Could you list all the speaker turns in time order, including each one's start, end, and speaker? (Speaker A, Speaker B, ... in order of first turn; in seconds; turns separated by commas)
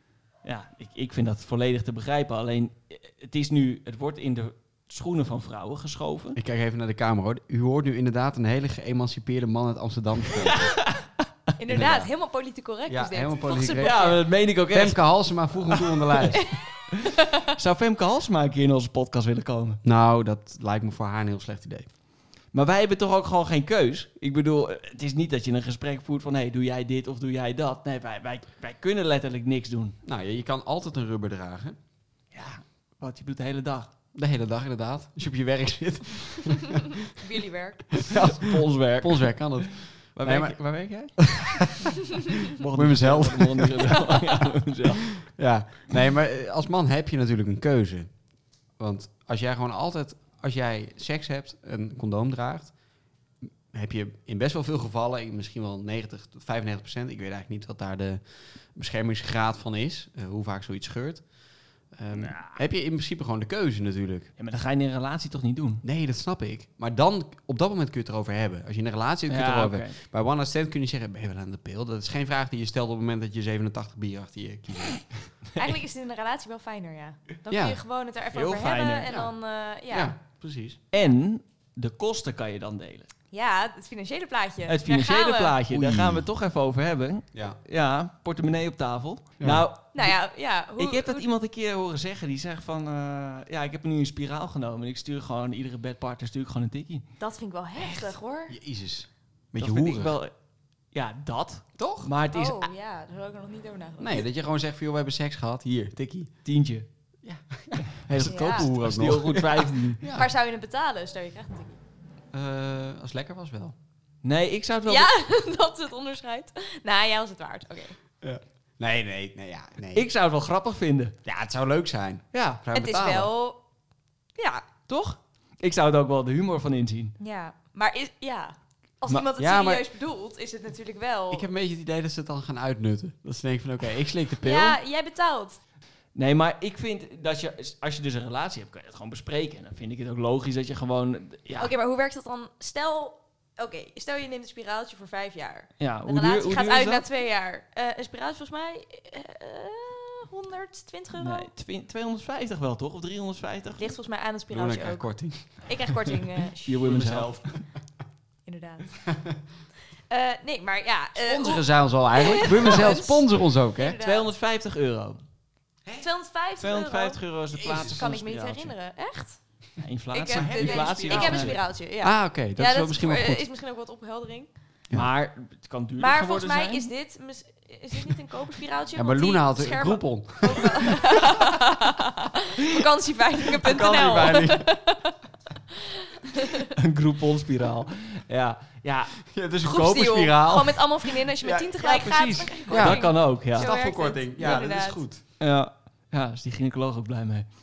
Speaker A: 0.4-6.4, Speaker B: 6.3-10.8, Speaker A: 10.3-11.1, Speaker C: 11.6-14.2, Speaker B: 11.7-12.1, Speaker B: 12.9-16.4, Speaker A: 13.8-16.3, Speaker C: 16.3-17.5, Speaker A: 16.9-19.8, Speaker B: 19.8-21.9, Speaker A: 22.5-29.9, Speaker B: 30.0-31.8, Speaker A: 32.3-33.9, Speaker B: 34.1-37.0, Speaker C: 37.1-37.8, Speaker B: 37.9-40.6, Speaker A: 38.1-41.7, Speaker B: 41.2-41.8, Speaker A: 42.4-45.2, Speaker B: 42.6-44.4, Speaker B: 45.2-48.1, Speaker B: 48.8-52.7, Speaker B: 53.4-58.2, Speaker B: 58.7-61.2, Speaker B: 61.9-64.3, Speaker A: 62.1-62.6, Speaker A: 64.4-65.8, Speaker B: 65.8-75.0, Speaker A: 69.3-70.0, Speaker C: 75.5-80.1, Speaker B: 77.5-77.8, Speaker A: 78.3-79.2, Speaker B: 79.9-80.8, Speaker A: 80.9-83.1, Speaker C: 83.3-85.5, Speaker A: 84.7-90.1, Speaker B: 85.7-86.3, Speaker B: 89.4-89.7, Speaker C: 89.9-91.2, Speaker A: 90.8-97.0, Speaker C: 97.2-98.5, Speaker A: 97.8-98.1, Speaker B: 98.5-100.2, Speaker A: 99.5-100.3, Speaker A: 100.9-102.7, Speaker B: 101.8-102.1, Speaker C: 102.3-104.2, Speaker B: 104.0-106.3, Speaker A: 106.4-106.8, Speaker B: 107.2-110.3, Speaker A: 107.8-110.0, Speaker C: 108.2-108.7, Speaker C: 110.0-111.8, Speaker B: 112.3-113.8, Speaker A: 114.2-115.1, Speaker C: 114.9-118.0, Speaker B: 118.2-120.1, Speaker A: 119.9-121.2, Speaker B: 121.2-123.3, Speaker A: 122.3-122.6, Speaker C: 122.7-123.6, Speaker C: 124.4-124.6, Speaker A: 124.9-127.1, Speaker C: 127.2-131.4, Speaker B: 129.4-129.9, Speaker B: 131.3-134.8, Speaker C: 134.4-135.6, Speaker A: 136.1-141.7, Speaker C: 141.6-151.5, Speaker A: 145.8-147.0, Speaker A: 151.2-153.9, Speaker C: 153.8-156.9, Speaker B: 154.5-155.6, Speaker A: 156.7-157.6, Speaker B: 156.8-157.6, Speaker C: 158.4-158.9, Speaker B: 159.1-159.3, Speaker C: 160.1-164.3, Speaker B: 161.2-164.0, Speaker A: 162.5-162.9, Speaker A: 164.0-165.2, Speaker C: 166.0-167.2, Speaker A: 166.6-168.7, Speaker B: 167.5-168.1, Speaker C: 167.8-169.4, Speaker A: 169.8-171.6, Speaker C: 170.1-174.5, Speaker B: 170.3-173.4, Speaker A: 174.9-176.9, Speaker C: 176.0-185.2, Speaker B: 178.9-181.0, Speaker B: 183.5-184.7, Speaker C: 185.7-186.7, Speaker A: 186.7-189.2, Speaker B: 189.3-195.2, Speaker C: 189.6-195.0, Speaker A: 191.9-193.7, Speaker A: 195.4-197.4